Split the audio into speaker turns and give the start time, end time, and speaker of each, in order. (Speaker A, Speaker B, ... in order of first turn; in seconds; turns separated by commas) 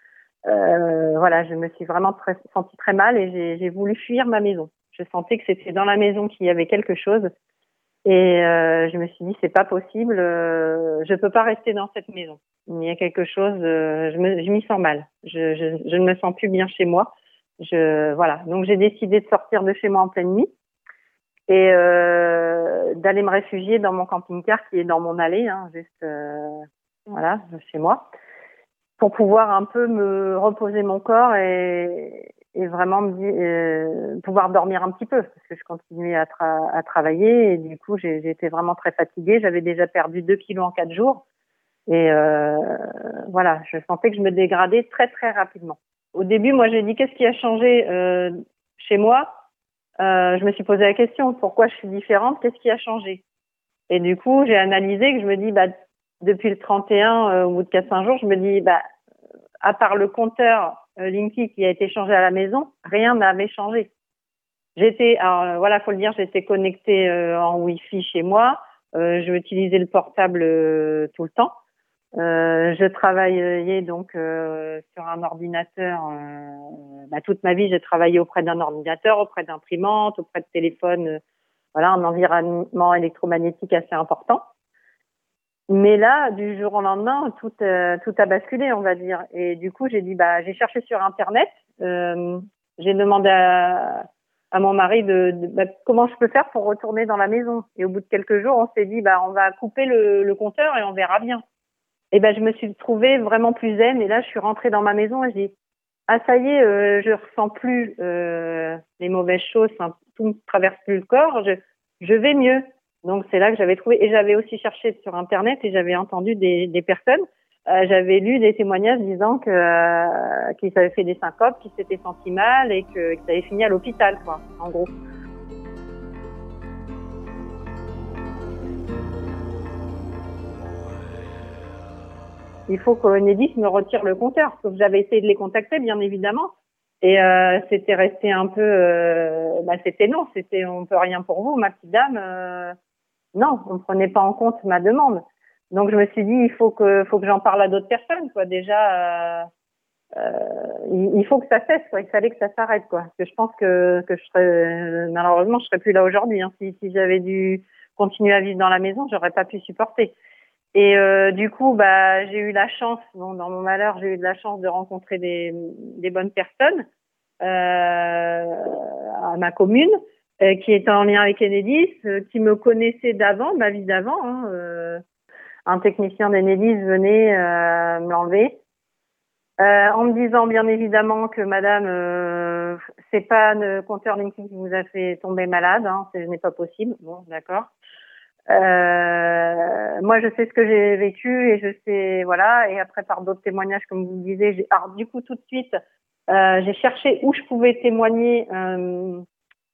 Speaker A: 0.5-7.3, Speaker A: 8.1-20.5, Speaker A: 21.5-28.1, Speaker A: 29.0-41.2, Speaker A: 41.9-49.4, Speaker A: 50.0-53.2, Speaker A: 53.9-58.8, Speaker A: 59.6-63.9, Speaker A: 64.8-71.5, Speaker A: 72.2-81.2, Speaker A: 81.7-84.4, Speaker A: 85.7-101.4, Speaker A: 102.1-105.5, Speaker A: 106.1-124.9, Speaker A: 132.7-136.5, Speaker A: 137.0-142.8, Speaker A: 143.3-149.5, Speaker A: 150.2-160.2, Speaker A: 160.8-166.9, Speaker A: 167.4-175.0, Speaker A: 175.7-178.5, Speaker A: 179.6-187.7, Speaker A: 188.5-195.8, Speaker A: 196.3-199.2